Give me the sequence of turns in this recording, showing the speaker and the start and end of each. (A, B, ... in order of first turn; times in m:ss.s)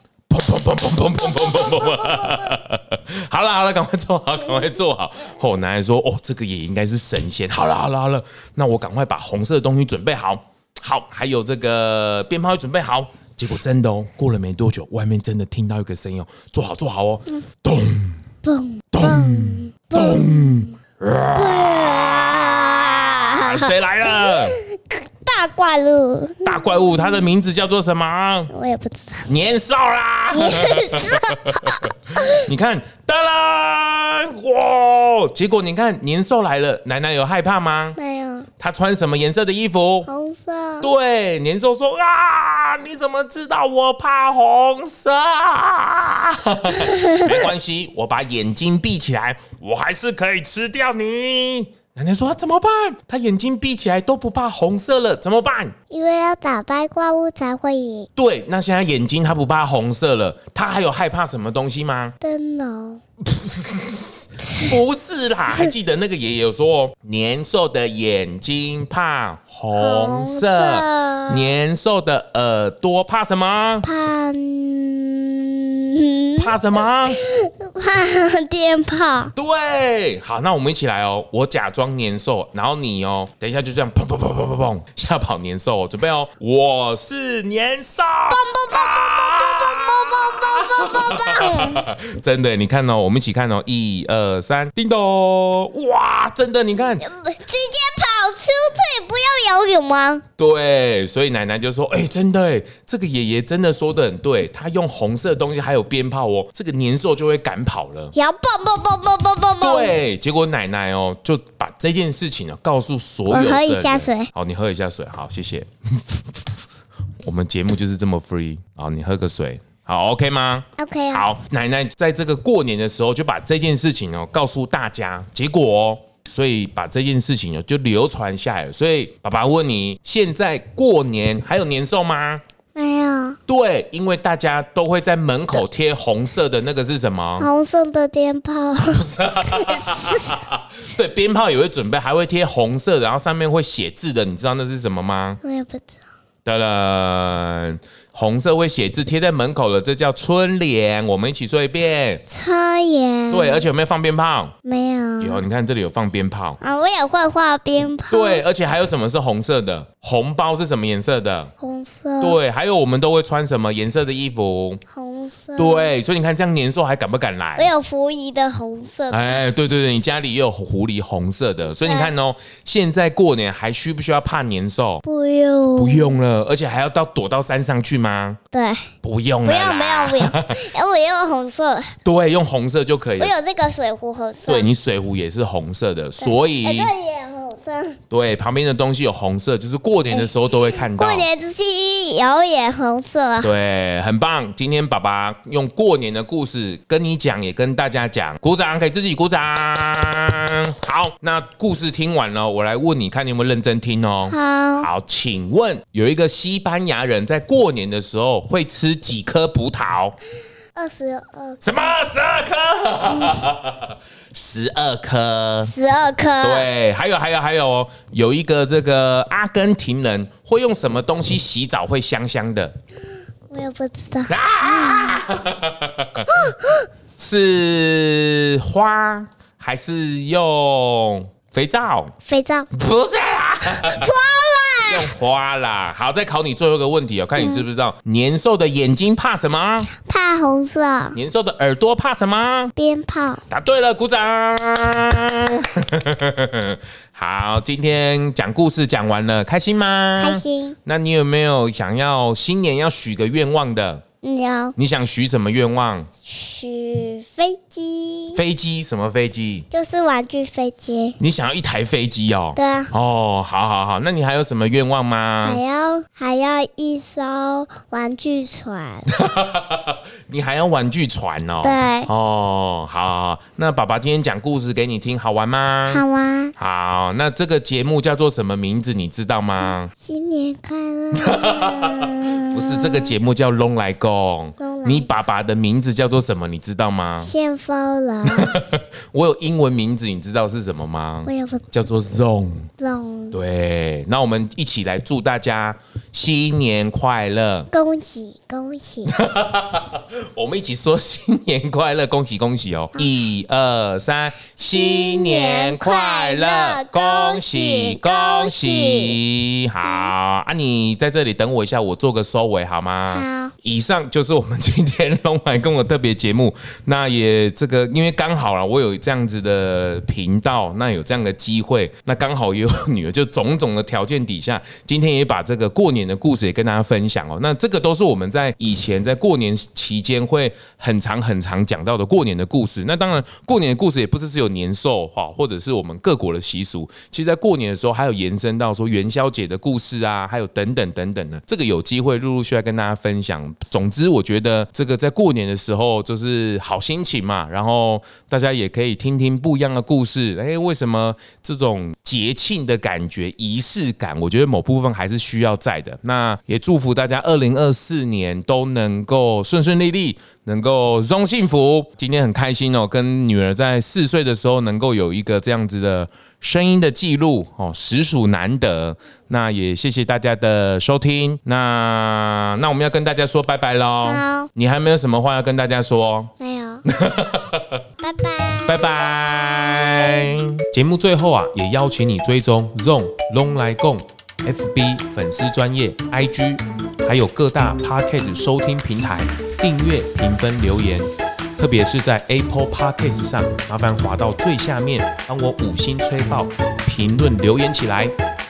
0:00.3-0:18.2 A
0:01.4-0:02.4 B
0:18.4-0:20.7 B
0:18.9-0:24.6 A
0:21.4-0:27.3 B
0:26.4-0:28.5 A
0:28.5-0:29.3 B
0:29.3-0:38.0 A
0:30.3-0:32.3 B
0:38.0-0:38.5 B
0:38.6-0:40.1 A
0:40.1-0:40.9 B
0:40.8-0:55.7 A
0:46.8-0:47.3 B
0:55.9-0:58.1 B
0:58.2-1:02.2 A
1:02.2-1:03.0 B
1:03.3-1:13.9 A
1:09.7-1:11.5 B
1:13.8-1:16.5 B
1:16.4-1:17.2 A
1:17.2-1:19.3 B
1:19.4-1:37.1 A
1:28.3-1:31.9 B
1:37.0-1:40.2 B
1:40.4-1:48.1 A
1:48.2-1:50.0 B
1:49.6-1:56.2 A
1:53.3-1:54.3 B
1:57.2-2:12.4 A
2:00.8-2:01.3 B
2:12.8-2:13.4 B
2:13.5-2:17.5 A
2:17.4-2:20.4 B
2:18.9-2:25.4 A
2:25.4-2:26.0 B
2:26.4-2:32.2 A
2:32.3-2:33.7 B
2:33.3-2:34.5 A
2:34.7-2:35.4 B
2:35.2-2:36.6 A
2:36.6-2:38.4 B
2:38.1-2:41.5 A
2:41.6-2:42.4 B
2:42.2-2:44.8 A
2:44.9-2:45.9 B
2:45.6-2:47.7 A
2:47.6-2:49.4 B
2:49.1-2:55.0 A
2:51.8-2:52.1 B
2:55.0-2:56.2 B
2:55.8-2:58.4 A
2:58.5-2:58.9 B
2:59.0-3:00.5 A
2:59.4-3:01.9 B
3:02.0-3:03.3 A
3:03.2-3:04.7 B
3:04.5-3:06.9 A
3:06.2-3:08.0 B
3:08.1-3:11.3 A
3:10.1-3:13.5 B
3:13.4-3:30.2 A
3:24.3-3:24.9 B
3:30.8-3:31.7 B
3:31.6-3:35.7 A
3:35.6-3:36.7 B
3:36.4-3:42.7 A
3:43.5-3:45.2 B
3:44.3-3:46.4 A
3:46.3-3:46.9 B
3:47.2-3:52.1 A
3:52.2-3:52.7 B
3:52.7-3:54.1 A
3:53.8-3:55.1 B
3:54.9-3:59.9 A
3:57.4-3:57.6 B
4:00.0-4:01.2 B
4:01.1-4:02.7 A
4:02.8-4:03.4 B
4:03.5-4:14.0 A
4:10.2-4:10.8 B
4:14.2-4:14.8 B
4:14.8-4:16.1 A
4:16.3-4:18.4 B
4:18.3-4:19.7 A
4:19.7-4:21.2 B
4:21.2-4:25.6 A
4:22.6-4:22.9 B
4:25.4-4:29.1 B
4:29.1-4:36.0 A
4:31.6-4:32.1 B
4:35.9-4:36.5 B
4:36.6-4:39.9 A
4:39.6-4:43.1 B
4:41.1-4:47.3 A
4:44.6-4:45.2 B
4:47.2-4:48.6 B
4:48.3-4:52.7 A
4:51.3-4:51.6 B
4:52.8-4:53.4 B
4:53.3-4:57.7 A
4:57.7-4:59.1 B
4:59.1-6:16.3 A
5:04.6-5:09.2 B
5:09.8-5:10.1 B
5:13.1-5:13.5 B
6:14.0-6:14.5 B
6:16.4-6:16.8 B
6:16.9-6:17.8 A
6:18.0-6:19.0 B
6:18.7-6:38.1 A
6:19.8-6:20.1 B